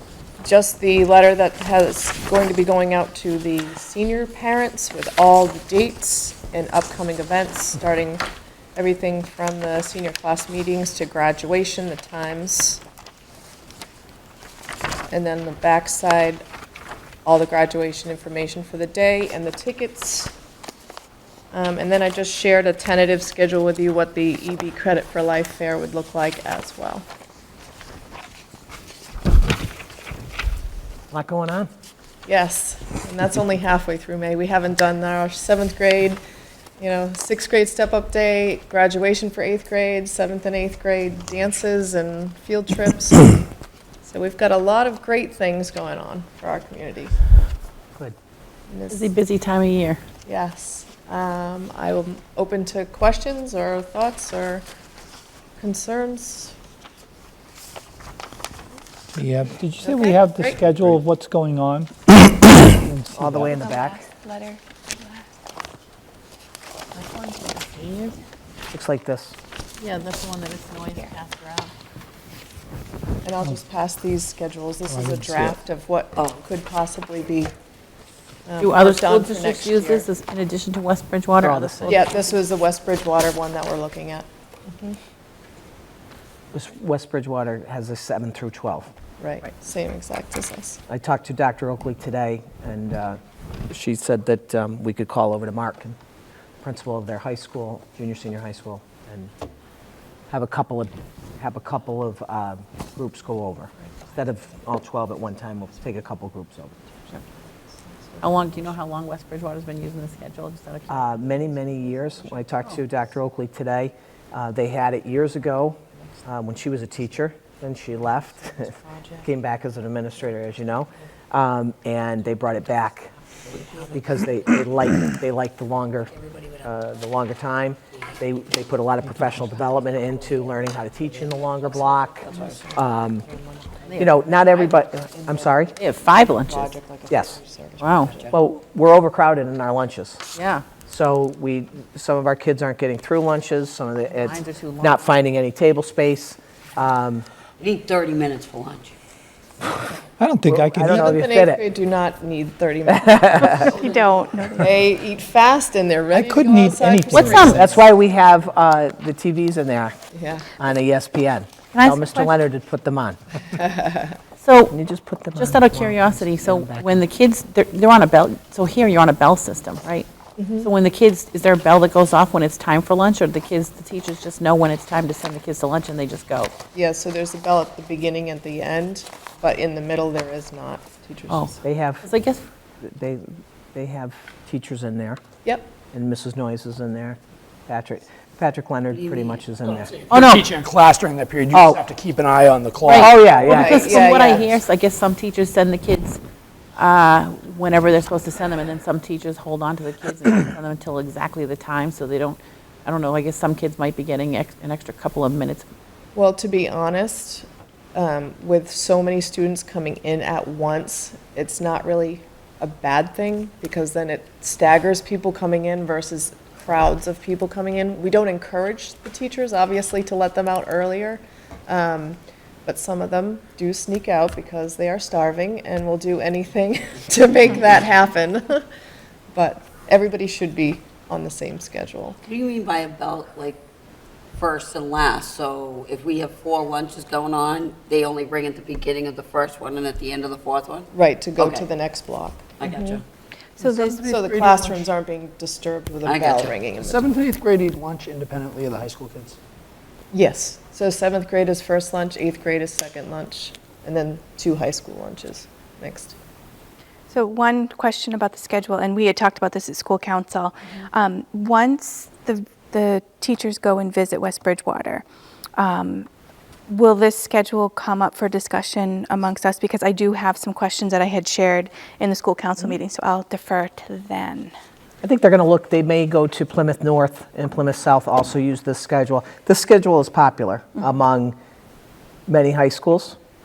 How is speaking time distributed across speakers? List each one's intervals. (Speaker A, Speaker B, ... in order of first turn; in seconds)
Speaker A: 0.4-8.2, 8.8-12.8, 15.1-16.4, 17.2-20.3, 21.5-27.1, 32.3-36.2, 36.8-43.4, 44.0-47.1, 48.7-49.1, 50.2-54.6, 55.6-56.5, 59.8-60.6, 73.2-77.5, 78.5-80.1, 81.9-85.0, 89.2-90.8, 107.0-108.7, 132.3-138.3, 150.5-153.7, 154.6-157.7, 160.1-160.5, 163.5-164.2, 170.4-170.7, 176.7-181.6, 185.4-185.7, 193.4-194.6, 206.2-228.7, 229.3-232.2, 240.9-243.0, 244.0-247.1, 250.1-256.1
Speaker B: 31.1-31.7, 63.1-64.0, 68.7-69.4, 81.4-82.0, 86.5-88.9, 90.9-93.2, 93.7-96.0, 96.6-99.3, 100.3-106.8, 110.9-123.1, 123.9-133.2, 134.0-135.8, 137.1-137.4, 138.3-140.2, 140.9-147.3, 150.5-151.6, 152.9-153.7, 156.9-160.0, 160.6-163.2, 164.7-166.8, 181.6-182.1, 182.8-185.2, 185.9-190.0, 191.5-191.8, 192.9-193.9, 275.0-281.4, 282.3-283.2
Speaker C: 48.9-50.0, 67.0-68.2, 69.8-71.7, 78.6-82.2, 108.2-111.2, 135.8-136.7, 137.8-138.1, 140.3-140.7, 144.1-145.0, 157.1-157.6, 161.7-162.3, 164.4-164.8, 165.3-170.1, 170.6-176.6, 181.3-182.4, 190.1-190.5, 192.9-196.2, 196.8-205.7
Speaker D: 59.1-61.9, 62.6-63.5, 74.9-75.5, 150.2-151.1, 156.1-157.5
Speaker E: 63.5-65.3, 153.4-154.7, 243.6-244.1, 257.1-265.0, 265.6-266.1, 266.7-274.5
Speaker F: 123.5-124.0, 126.1-126.7, 127.9-133.1, 133.8-134.2, 138.0-138.3, 147.6-148.9, 153.6-154.3, 188.9-190.2, 232.2-233.6, 234.4-241.7, 242.6-243.0, 246.1-246.6
Speaker G: 190.1-193.3, 243.6-244.8, 246.8-249.4